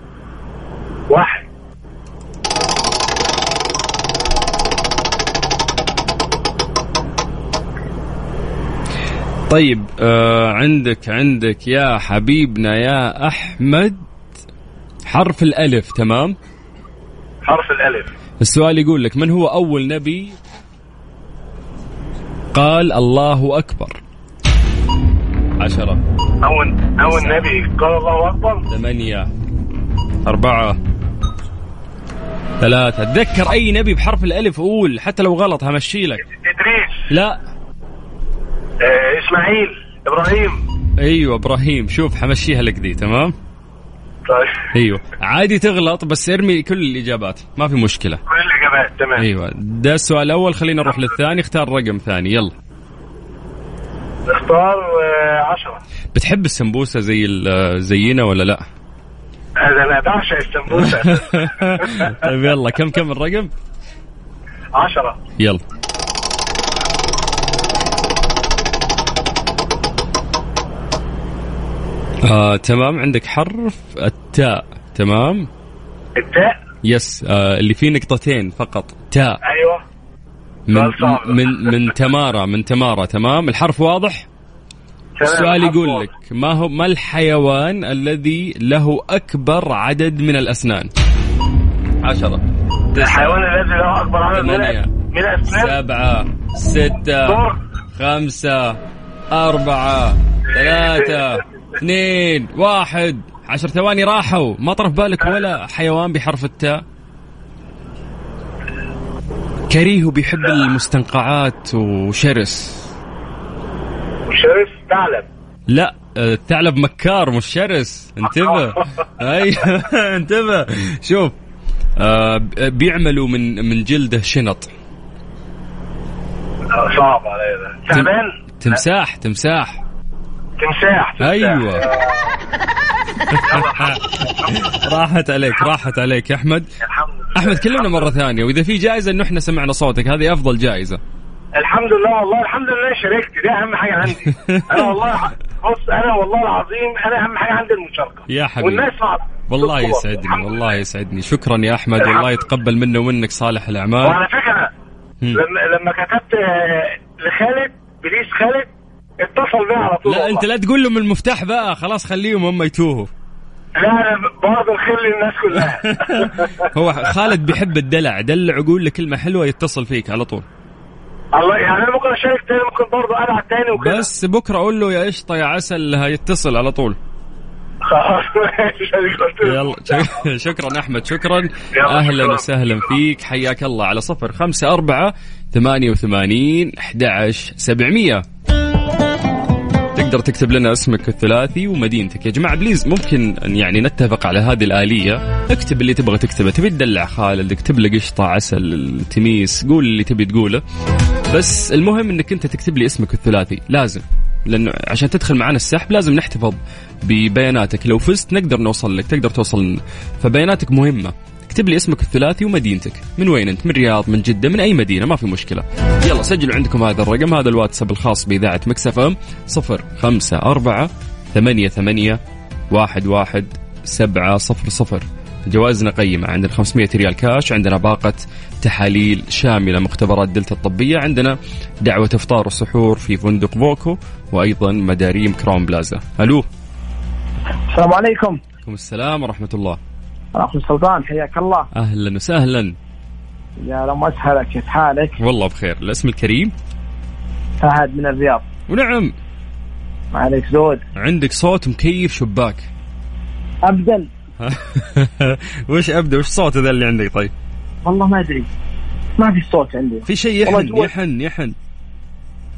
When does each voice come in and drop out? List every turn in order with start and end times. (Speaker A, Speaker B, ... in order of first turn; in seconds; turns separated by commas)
Speaker A: 1.1-1.4, Speaker B: 9.5-14.0, Speaker B: 15.1-16.4, Speaker A: 17.4-18.1, Speaker B: 18.4-20.4, Speaker B: 22.5-24.0, Speaker B: 25.6-26.0, Speaker A: 26.4-28.6, Speaker B: 27.1-27.5, Speaker B: 28.7-29.3, Speaker B: 30.2-30.8, Speaker B: 32.6-36.2, Speaker A: 36.3-37.0, Speaker B: 37.1-37.4, Speaker A: 38.8-40.6, Speaker B: 41.0-43.3, Speaker A: 44.2-44.7, Speaker B: 44.7-48.2, Speaker A: 48.3-49.2, Speaker B: 49.2-52.5, Speaker A: 54.3-55.8, Speaker B: 56.1-58.6, Speaker A: 59.6-62.2, Speaker B: 60.7-63.5, Speaker A: 64.7-65.2, Speaker B: 72.2-75.5, Speaker A: 76.2-76.6, Speaker B: 76.8-79.4, Speaker A: 79.4-79.8, Speaker B: 80.7-84.3, Speaker A: 80.7-81.7, Speaker A: 85.2-86.0, Speaker B: 85.2-90.9, Speaker B: 92.0-92.4, Speaker B: 92.9-93.4, Speaker A: 93.0-95.7, Speaker B: 94.3-94.9, Speaker B: 95.5-97.4, Speaker A: 97.2-97.6, Speaker B: 98.0-98.8, Speaker B: 99.3-106.8, Speaker A: 100.5-101.2, Speaker B: 109.7-112.9, Speaker A: 114.3-115.2, Speaker B: 115.7-121.3, Speaker B: 122.0-124.7, Speaker A: 126.7-128.8, Speaker B: 127.9-129.8, Speaker A: 130.6-132.1, Speaker B: 131.2-131.8, Speaker B: 133.3-136.7, Speaker A: 133.5-134.6, Speaker A: 136.8-138.1, Speaker B: 137.3-141.0, Speaker A: 141.6-150.7, Speaker B: 144.3-144.9, Speaker B: 148.3-148.9, Speaker B: 149.5-154.2, Speaker A: 152.0-152.4, Speaker A: 154.0-154.7, Speaker A: 155.3-158.7, Speaker A: 159.2-160.4, Speaker B: 160.0-163.1, Speaker A: 163.8-166.7, Speaker B: 165.8-170.4, Speaker A: 171.3-174.1, Speaker B: 173.7-177.0, Speaker A: 177.8-180.2, Speaker B: 179.4-188.2, Speaker A: 181.7-182.4, Speaker B: 189.9-200.6, Speaker B: 201.3-222.2, Speaker B: 222.7-236.4, Speaker C: 237.7-238.4, Speaker B: 238.6-239.8, Speaker C: 240.3-241.7, Speaker B: 241.7-242.7, Speaker C: 243.6-245.2, Speaker B: 245.2-246.5, Speaker C: 247.6-248.4, Speaker B: 248.7-249.1, Speaker C: 250.1-250.8, Speaker B: 250.9-252.7, Speaker C: 253.6-254.1, Speaker B: 254.4-257.3, Speaker C: 257.8-258.5, Speaker C: 259.2-260.9, Speaker B: 260.1-261.5